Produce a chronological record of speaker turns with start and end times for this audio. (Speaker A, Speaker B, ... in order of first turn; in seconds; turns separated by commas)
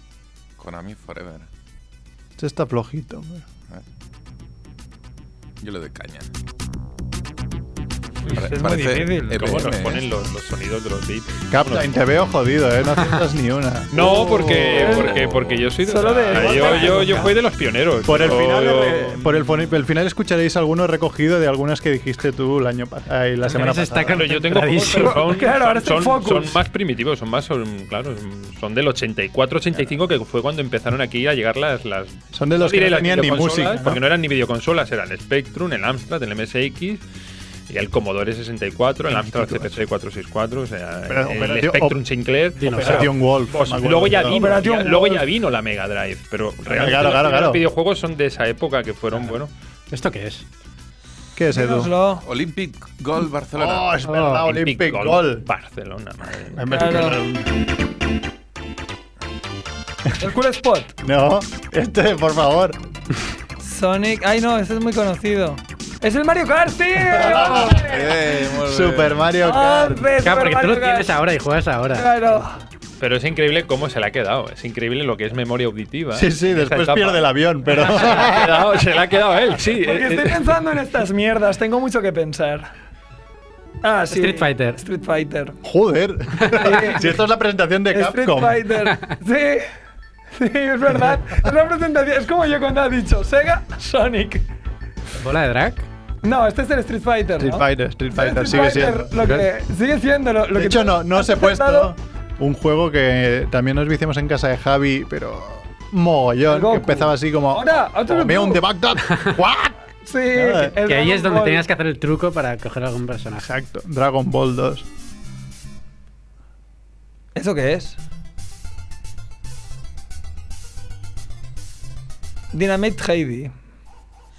Speaker A: 0.6-1.5, Speaker B: 2.4-3.5, Speaker A: 5.6-6.3, Speaker A: 8.3-10.1, Speaker C: 8.3-9.6, Speaker D: 9.4-11.9, Speaker B: 11.5-15.0, Speaker D: 13.9-19.2, Speaker A: 14.8-15.7, Speaker C: 14.8-15.1, Speaker C: 15.8-17.3, Speaker B: 16.4-17.1, Speaker E: 16.8-17.3, Speaker B: 18.1-24.3, Speaker C: 18.2-18.7, Speaker E: 23.4-25.2, Speaker D: 24.1-37.0, Speaker C: 24.9-26.6, Speaker B: 32.3-34.0, Speaker D: 37.7-49.5, Speaker B: 39.1-39.8, Speaker B: 41.1-42.0, Speaker E: 42.6-43.1, Speaker B: 42.7-44.4, Speaker C: 44.3-45.2, Speaker B: 46.6-47.6, Speaker E: 49.9-50.5, Speaker B: 51.4-51.9, Speaker C: 51.5-52.3, Speaker A: 52.2-54.0, Speaker B: 53.6-55.5, Speaker E: 54.1-54.4, Speaker D: 54.4-56.7, Speaker B: 56.5-57.6, Speaker C: 56.7-57.2, Speaker C: 60.2-60.9, Speaker B: 61.0-62.8, Speaker C: 63.6-68.0, Speaker B: 67.2-67.9, Speaker A: 67.5-69.3, Speaker B: 68.6-70.1, Speaker C: 69.4-71.1, Speaker E: 70.2-72.4, Speaker C: 71.9-72.6, Speaker D: 73.0-80.5, Speaker B: 76.1-78.7, Speaker C: 79.8-82.7, Speaker C: 83.8-85.6, Speaker E: 84.1-84.8, Speaker B: 85.6-88.7, Speaker C: 86.5-87.1, Speaker C: 87.9-89.7, Speaker C: 90.3-94.5, Speaker E: 95.2-95.9, Speaker C: 96.2-101.9, Speaker B: 97.4-99.5, Speaker B: 100.5-109.8, Speaker C: 106.5-108.6, Speaker C: 110.0-111.6, Speaker B: 110.3-110.8, Speaker E: 110.8-113.5, Speaker B: 113.4-114.9, Speaker C: 117.3-118.0, Speaker C: 122.5-123.5